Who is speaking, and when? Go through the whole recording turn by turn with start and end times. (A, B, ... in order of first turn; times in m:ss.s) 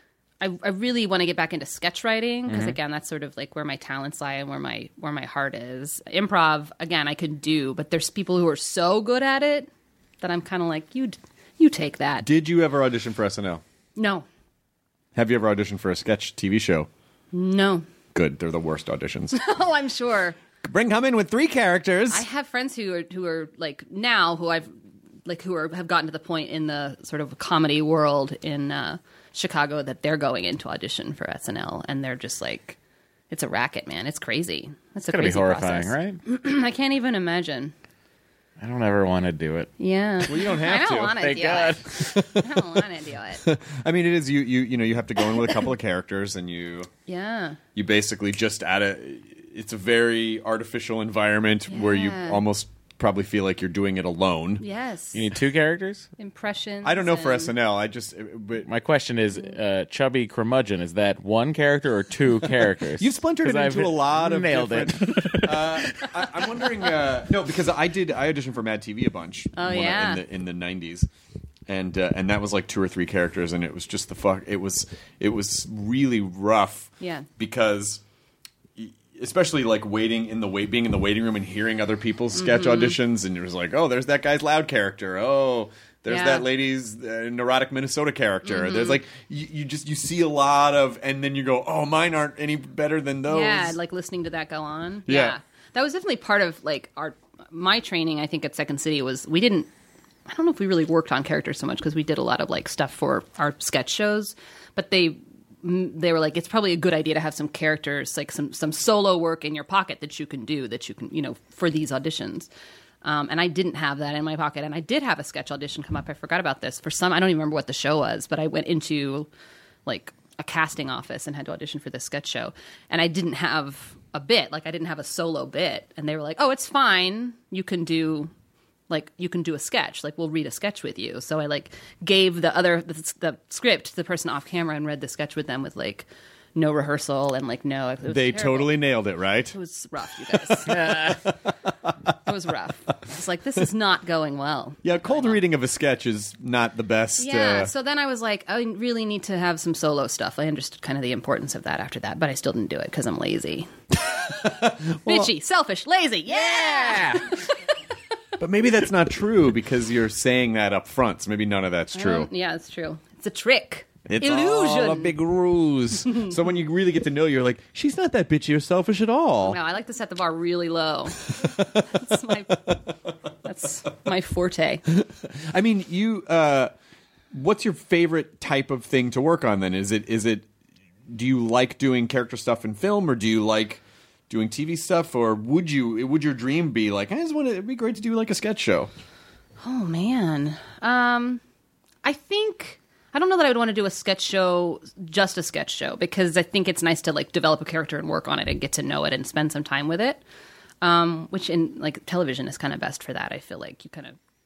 0:00.4-0:09.7 A
0:02.5-0:02.8 B
0:10.2-0:12.3 A
0:12.2-0:13.6 C
0:14.0-0:14.3 A
0:15.2-0:16.9 C
0:17.3-0:17.9 A
0:18.1-0:19.4 C
0:19.3-0:20.4 A
0:20.6-0:22.2 C
0:22.1-0:24.7 A
0:25.2-0:32.8 A
0:33.3-0:37.7 A
0:35.1-0:36.2 B
0:38.6-0:39.7 B
0:39.8-0:43.4 A
0:40.3-0:41.3 C
0:41.1-0:42.2 B
0:41.9-0:42.6 C
0:43.4-0:46.9 C
0:47.1-0:47.6 A
0:47.8-0:54.6 C
0:51.7-0:52.4 A
0:54.6-0:55.3 A
0:55.1-0:56.1 B
0:56.2-0:57.5 A
0:56.8-0:58.7 C
0:58.6-1:06.2 B
1:03.0-1:11.1 C
1:09.6-1:10.2 A
1:11.7-1:18.0 C
1:17.0-1:17.3 A
1:18.8-1:33.8 C
1:22.4-1:23.0 A
1:26.1-1:26.5 A
1:28.5-1:29.0 A
1:33.3-1:39.7 A
1:35.1-1:35.4 C
1:40.3-1:52.5 A
1:53.0-1:59.3 A
1:59.9-2:08.3 A
2:08.9-2:18.8 A
2:18.1-2:19.5 C
2:19.5-2:21.2 A
2:20.7-2:21.2 B
2:22.2-2:25.4 A
2:24.8-2:27.7 C
2:27.2-2:33.7 A
2:34.3-2:35.3 C
2:35.1-2:37.6 A
2:36.3-2:37.4 B
2:38.4-2:42.3 C
2:42.0-2:45.2 A
2:44.1-2:49.6 C
2:49.4-2:52.8 A
2:51.4-2:51.8 C
2:53.4-2:54.8 A
2:54.9-2:56.7 C
2:57.3-3:00.5 C
3:01.1-3:08.9 C
3:09.6-3:11.4 A
3:12.0-3:20.2 A
3:20.8-3:24.2 A